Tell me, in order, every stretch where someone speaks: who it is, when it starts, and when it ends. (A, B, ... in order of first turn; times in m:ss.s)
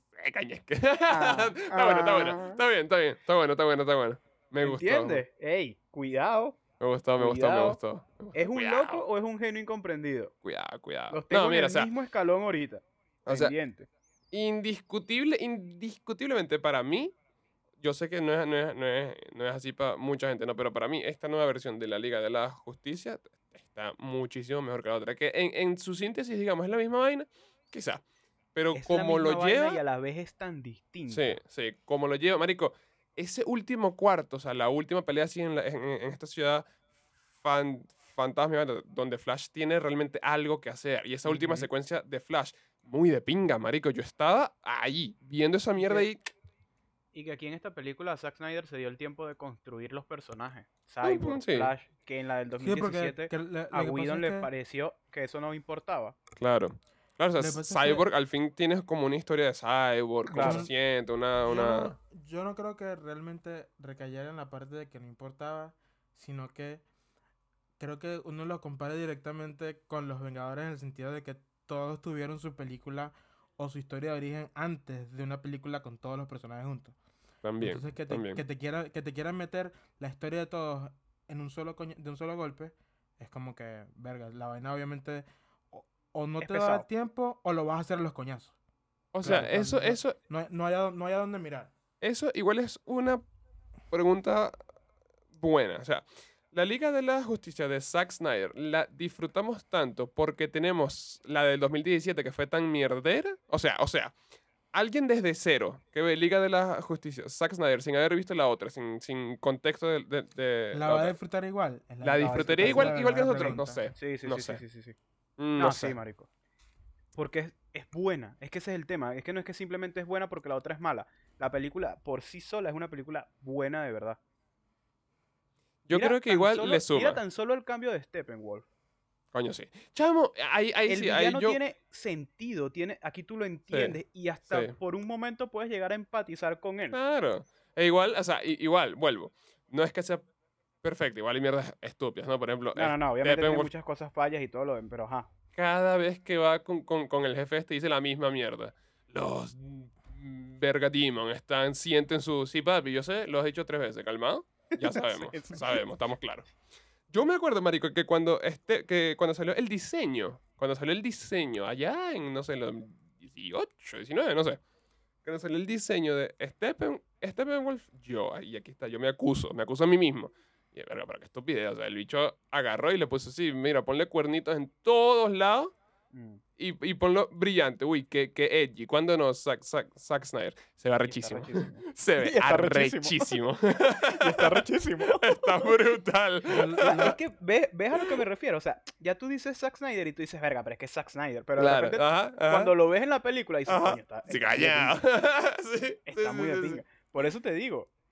0:00.1-0:05.2 A
0:01.1-0:02.6 B
0:04.6-0:06.6 B
0:06.8-0:09.0 A
0:07.2-0:07.8 B
0:08.3-0:10.3 B
0:10.4-0:11.9 A
0:11.1-0:13.9 B
0:13.2-0:13.5 A
0:14.3-0:17.1 A
0:17.8-0:28.0 A
0:28.5-0:29.8 A
0:28.7-0:31.4 B
0:31.1-0:36.6 A
0:37.4-0:46.3 A
0:41.2-0:41.7 B
0:45.7-0:46.1 B
0:47.1-0:56.2 B
0:51.0-0:51.7 A
0:52.6-0:54.5 C
0:56.4-1:01.9 A
0:57.4-0:58.0 C
1:00.3-1:00.7 B
1:00.4-1:00.7 C
1:01.4-1:06.8 C
1:07.8-1:17.0 C
1:17.4-1:18.4 A
1:17.6-1:28.6 C
1:26.4-1:26.9 B
1:29.1-1:30.2 A
1:29.2-1:31.7 C
1:32.0-1:33.2 A
1:33.9-1:34.5 A
1:35.4-1:44.1 A
1:44.7-1:51.1 A
1:50.7-1:53.8 C
1:52.0-1:54.6 A
1:52.2-1:55.0 B
1:55.4-1:56.0 A
1:55.6-1:56.3 B
1:57.1-2:04.2 B
2:05.9-2:07.2 A
2:05.9-2:08.6 B
2:09.3-2:11.6 A
2:10.9-2:17.0 B
2:13.7-2:14.7 A
2:16.9-2:20.2 A
2:20.8-2:23.7 A
2:22.7-2:25.3 B
2:25.5-2:36.5 A
2:34.7-2:35.8 B
2:37.1-2:44.6 A
2:45.2-2:55.7 A
2:56.1-2:56.4 B
2:56.6-3:07.2 A
3:01.0-3:05.8 B
3:06.5-3:07.2 C
3:06.8-3:15.0 B
3:07.9-3:08.2 A
3:11.6-3:12.7 A
3:13.7-3:17.2 A
3:16.0-3:17.9 B